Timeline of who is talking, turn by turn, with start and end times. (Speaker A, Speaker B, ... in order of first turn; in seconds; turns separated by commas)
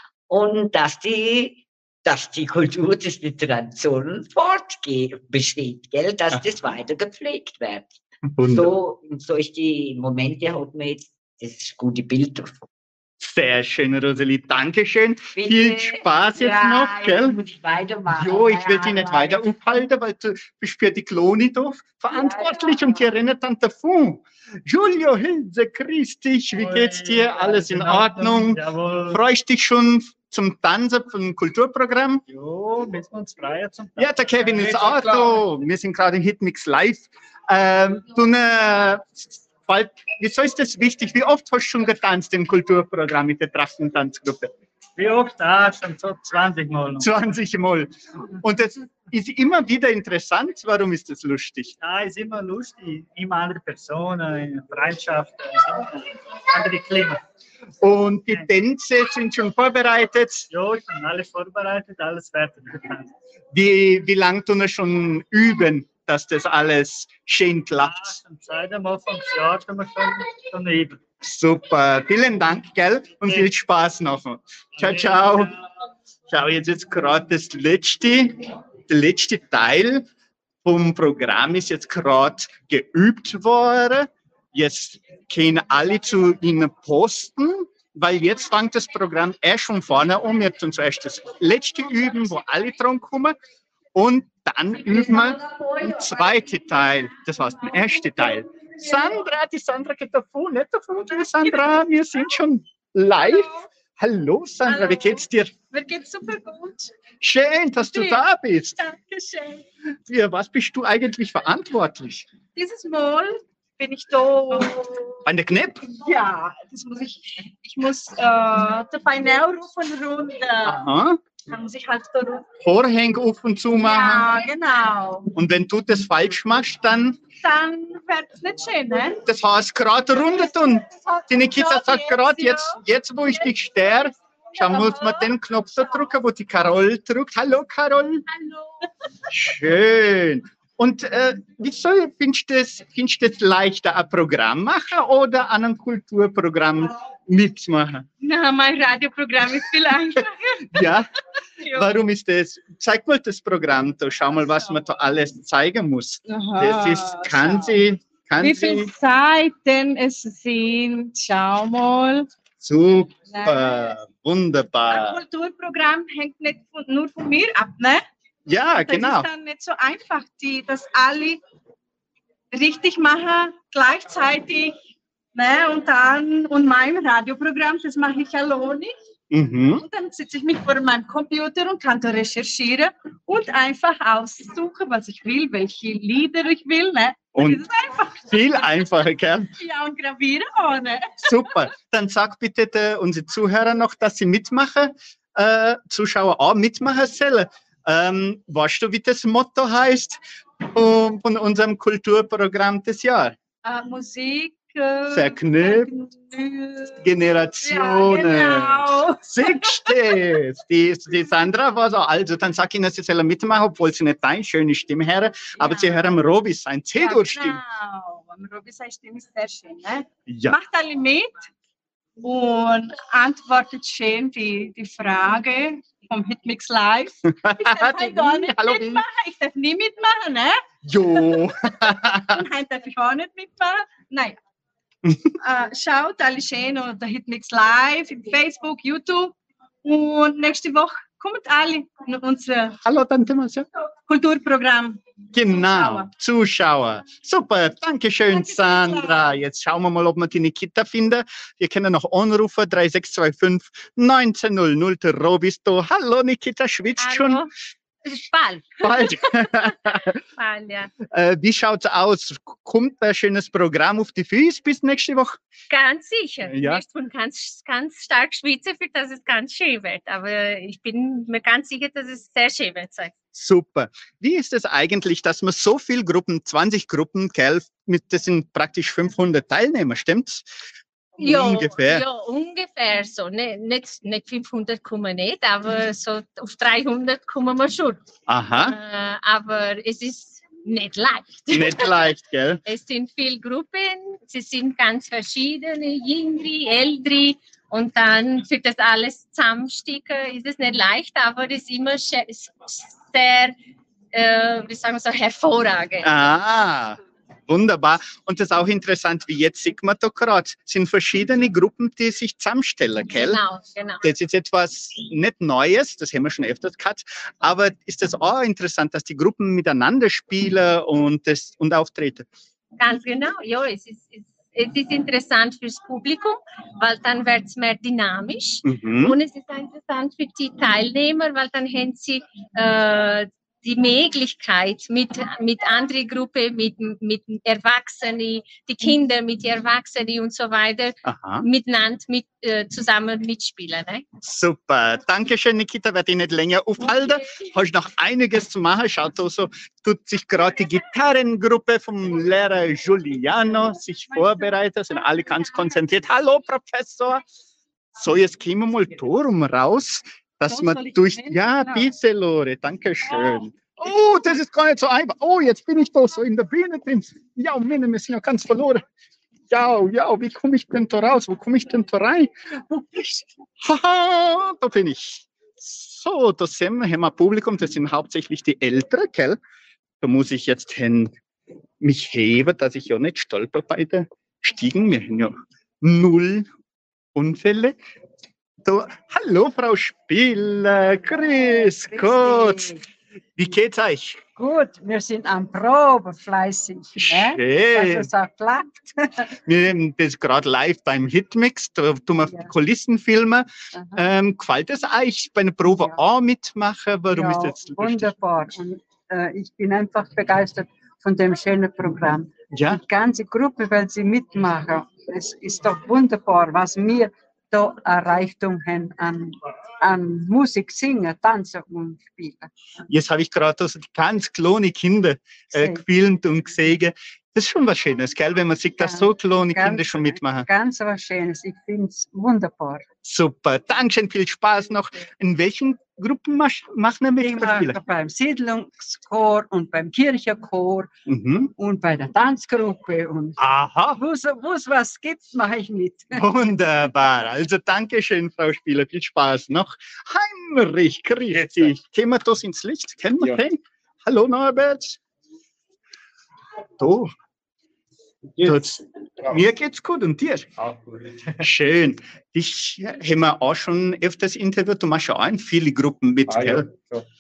Speaker A: 0.3-12.6, Speaker B: 8.4-8.8, Speaker B: 13.2-17.4, Speaker A: 15.3-19.4, Speaker B: 18.1-32.2, Speaker A: 22.1-23.1, Speaker C: 26.5-29.2, Speaker C: 32.3-35.5, Speaker B: 34.0-44.5, Speaker C: 45.0-47.1, Speaker B: 47.0-51.8, Speaker C: 51.8-57.2, Speaker B: 57.8-60.5, Speaker C: 60.5-63.1, Speaker B: 63.5-68.2, Speaker C: 67.8-71.0, Speaker B: 71.2-75.5, Speaker C: 74.8-75.5, Speaker B: 76.3-80.1, Speaker B: 80.6-93.4, Speaker B: 94.0-105.5, Speaker D: 95.5-95.9, Speaker D: 103.2-103.7, Speaker D: 104.7-106.9, Speaker B: 107.2-108.8, Speaker D: 107.9-108.2, Speaker D: 108.8-109.6, Speaker B: 110.1-112.3, Speaker D: 112.5-115.2, Speaker B: 115.2-115.8, Speaker D: 115.9-120.9, Speaker B: 120.6-121.2, Speaker D: 121.5-122.5, Speaker B: 122.6-124.3, Speaker D: 123.7-125.3, Speaker B: 125.3-127.2, Speaker D: 127.4-129.2, Speaker B: 129.2-138.2, Speaker D: 130.2-132.8, Speaker D: 134.6-135.3, Speaker B: 139.3-148.1, Speaker D: 148.2-150.9, Speaker B: 150.7-151.1, Speaker D: 151.6-151.9, Speaker B: 151.7-158.9, Speaker D: 156.3-157.8, Speaker D: 158.4-162.3, Speaker B: 162.6-165.2, Speaker D: 163.3-163.8, Speaker D: 164.9-168.0, Speaker B: 168.5-169.3, Speaker D: 168.7-171.4, Speaker D: 172.5-174.8, Speaker D: 175.3-178.9, Speaker B: 179.3-179.8, Speaker D: 179.8-188.8, Speaker B: 187.3-187.6, Speaker B: 188.2-189.5, Speaker D: 189.6-191.4, Speaker B: 191.2-200.2, Speaker B: 200.7-203.4, Speaker D: 203.6-210.2, Speaker B: 205.1-205.9, Speaker B: 207.0-217.6, Speaker D: 215.6-216.1, Speaker D: 217.0-221.3, Speaker B: 220.3-220.6, Speaker D: 222.2-230.6, Speaker B: 227.4-229.0, Speaker B: 230.8-232.4, Speaker D: 232.3-234.4, Speaker D: 235.4-242.8, Speaker B: 242.8-243.7, Speaker D: 244.1-246.1, Speaker B: 245.3-257.5, Speaker D: 248.3-249.2, Speaker E: 257.0-257.5, Speaker E: 258.1-260.9, Speaker B: 258.8-260.2, Speaker B: 261.1-265.4, Speaker E: 265.7-273.1, Speaker B: 266.5-266.8, Speaker B: 273.4-280.5, Speaker B: 281.2-282.0, Speaker E: 281.2-288.0, Speaker B: 288.3-288.8, Speaker E: 288.6-292.1, Speaker B: 291.5-292.6, Speaker E: 292.6-303.6, Speaker E: 304.1-306.3, Speaker B: 306.0-313.4, Speaker E: 313.1-314.1, Speaker B: 314.0-322.3, Speaker E: 322.8-344.0, Speaker B: 328.6-329.2, Speaker B: 341.1-341.4, Speaker B: 344.2-357.2, Speaker B: 357.9-368.8, Speaker D: 360.5-361.8, Speaker B: 369.5-379.4, Speaker B: 380.0-381.1, Speaker B: 381.8-386.5, Speaker B: 387.1-387.8, Speaker B: 388.6-392.8, Speaker F: 391.2-392.8, Speaker B: 393.4-394.2, Speaker F: 394.4-398.8, Speaker B: 397.0-398.1, Speaker B: 399.5-408.1, Speaker F: 407.1-422.5, Speaker B: 412.5-412.8, Speaker B: 422.9-430.5, Speaker F: 425.5-425.8, Speaker F: 428.8-432.8, Speaker B: 433.1-437.8, Speaker F: 437.2-440.9, Speaker B: 441.1-441.5, Speaker F: 441.6-443.4, Speaker B: 443.4-444.0, Speaker F: 444.0-446.4, Speaker B: 446.1-455.0, Speaker G: 451.3-451.7, Speaker B: 456.8-457.1, Speaker G: 458.4-458.7, Speaker B: 458.4-460.5, Speaker G: 460.6-461.4, Speaker B: 461.4-466.7, Speaker G: 466.3-467.1